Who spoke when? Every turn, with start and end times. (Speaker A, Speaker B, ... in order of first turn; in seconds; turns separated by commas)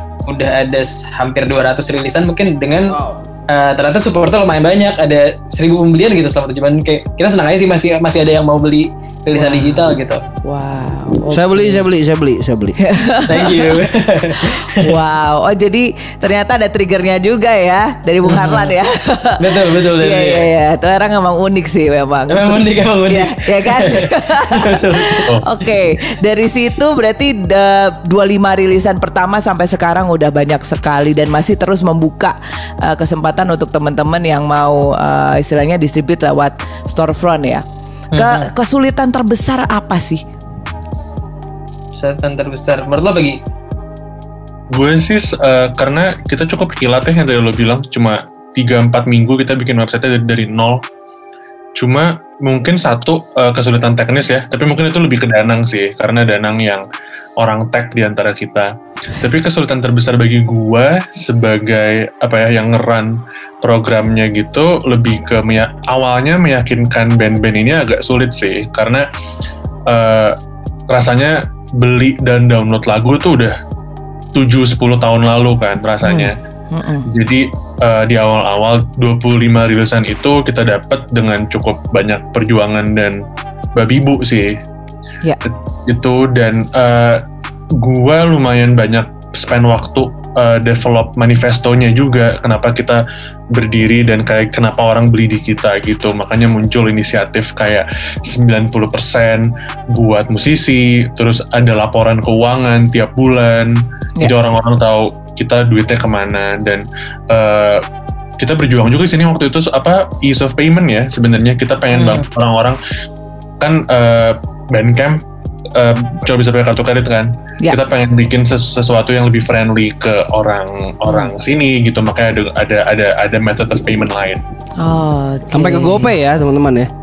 Speaker A: 0.3-3.0, Speaker B: 2.9-3.2, Speaker A: 3.5-10.2, Speaker C: 9.3-9.8, Speaker C: 10.4-11.8, Speaker B: 11.3-12.8, Speaker C: 12.8-13.9, Speaker A: 13.3-14.9, Speaker C: 14.4-37.6, Speaker A: 18.2-18.8, Speaker A: 19.4-20.5, Speaker A: 22.3-25.3, Speaker A: 38.1-38.5, Speaker C: 38.1-40.2, Speaker A: 42.0-43.4, Speaker D: 44.7-50.8, Speaker D: 51.8-56.8, Speaker D: 57.4-69.1, Speaker D: 69.9-70.4, Speaker D: 70.9-73.6, Speaker D: 74.3-76.3, Speaker C: 76.0-77.1, Speaker D: 77.1-83.2, Speaker D: 83.8-84.6, Speaker D: 85.5-87.2, Speaker D: 87.8-93.0, Speaker D: 93.5-107.8, Speaker D: 108.4-112.8, Speaker A: 111.9-112.2, Speaker D: 113.6-115.2, Speaker D: 115.8-124.4, Speaker C: 121.1-121.3, Speaker C: 124.8-126.1, Speaker B: 125.5-126.9